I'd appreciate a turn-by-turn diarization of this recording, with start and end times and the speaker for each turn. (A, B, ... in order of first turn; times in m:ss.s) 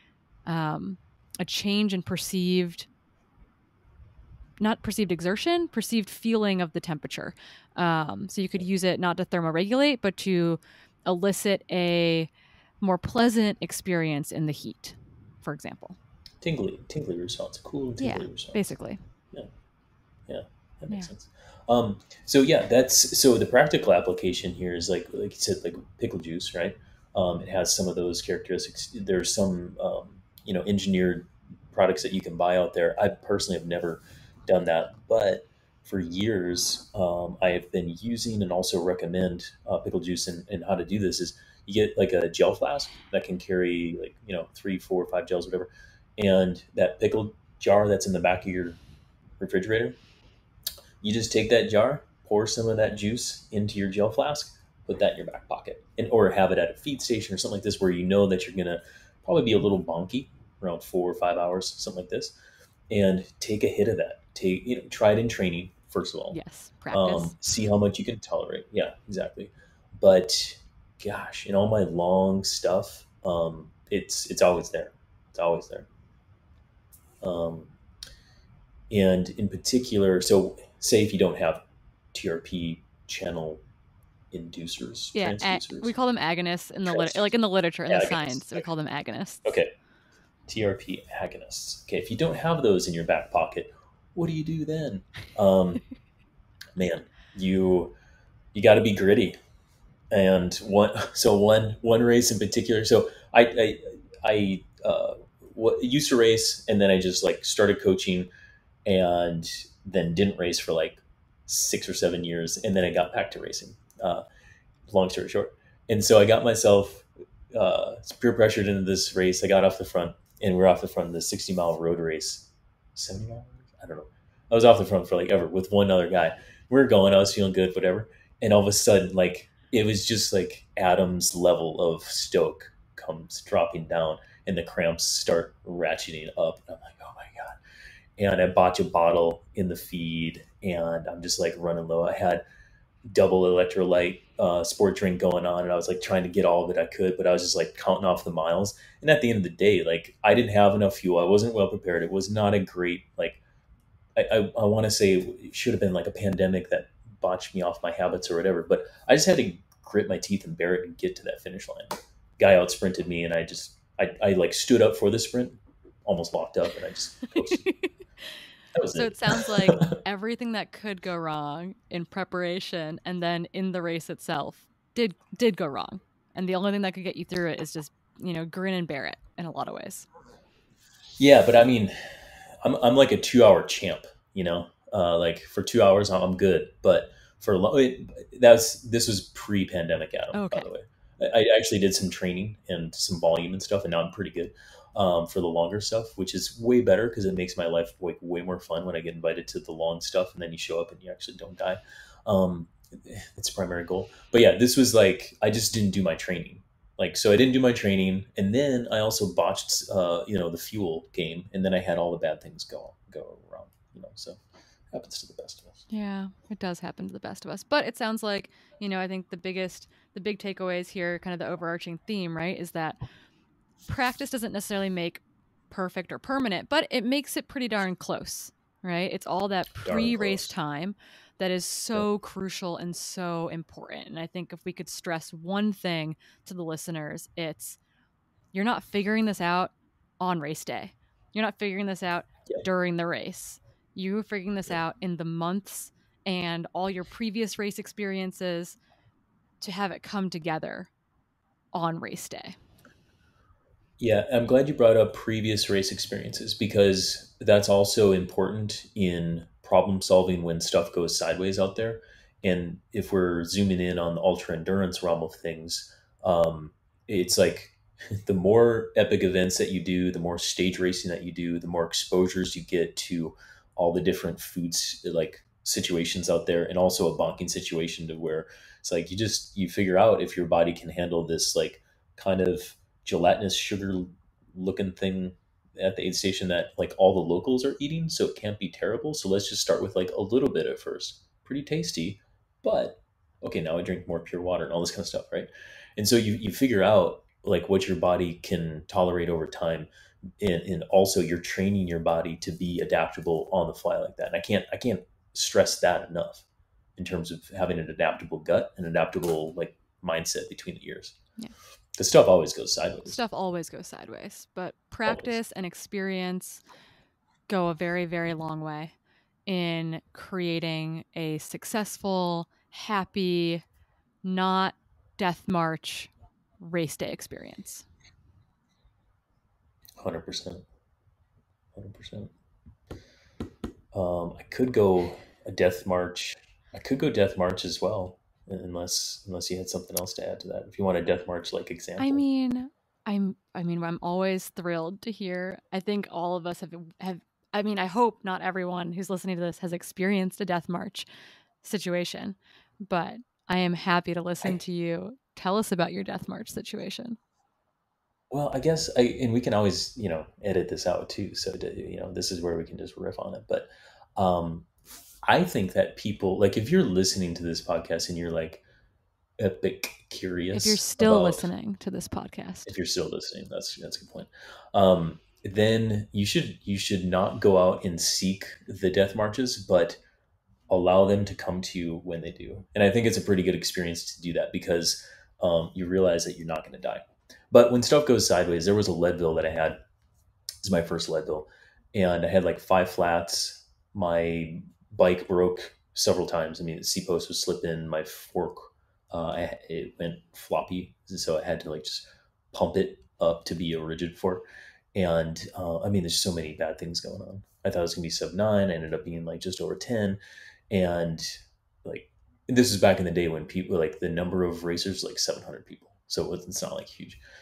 0:00.4-0:02.9 A
0:04.6-0:12.3 A
0:12.8-0:16.0 A
0:16.4-0:18.6 B
0:18.0-0:19.0 A
0:20.3-0:48.8 B
0:49.4-0:50.0 B
0:51.0-1:02.3 B
1:02.9-1:06.4 B
1:06.3-1:07.4 A
1:06.9-1:15.9 B
1:17.2-1:17.7 B
1:18.9-1:23.6 B
1:24.3-1:25.9 B
1:25.1-1:29.4 A
1:26.8-1:27.3 B
1:27.9-1:28.6 B
1:29.4-1:29.7 B
1:30.5-1:35.8 B
1:36.7-1:37.9 B
1:38.5-1:39.4 B
1:40.1-1:48.3 B
1:48.8-1:54.2 B
1:54.9-2:17.6 B
2:18.2-2:22.4 B
2:23.1-2:33.4 B
2:34.2-2:47.7 B
2:47.6-2:47.9 A
2:48.7-2:50.0 B
2:48.9-3:00.0 A
3:01.2-3:34.4 B
3:10.3-3:10.7 A
3:34.9-3:35.8 B
3:35.9-3:43.0 A
3:43.9-3:57.8 A
3:49.8-3:50.5 B
3:58.5-4:08.8 A
4:09.6-4:10.9 A
4:11.7-4:12.5 A
4:14.0-4:59.9 B
5:00.4-5:06.4 B
5:07.0-5:11.2 B
5:12.0-5:13.2 B
5:13.0-5:16.6 A
5:15.0-5:15.4 B
5:17.5-5:18.9 A
5:19.5-5:23.6 A
5:24.2-5:27.8 A
5:30.0-5:30.6 B
5:31.7-5:32.3 B
5:33.9-5:42.2 B
5:42.0-5:51.0 A
5:51.6-5:57.2 A
5:58.3-6:04.7 B
6:05.2-6:08.6 B
6:09.4-6:11.5 B
6:10.5-6:12.7 A
6:12.6-6:20.0 B
6:20.7-6:29.8 B
6:30.6-6:44.4 B
6:44.9-6:57.2 B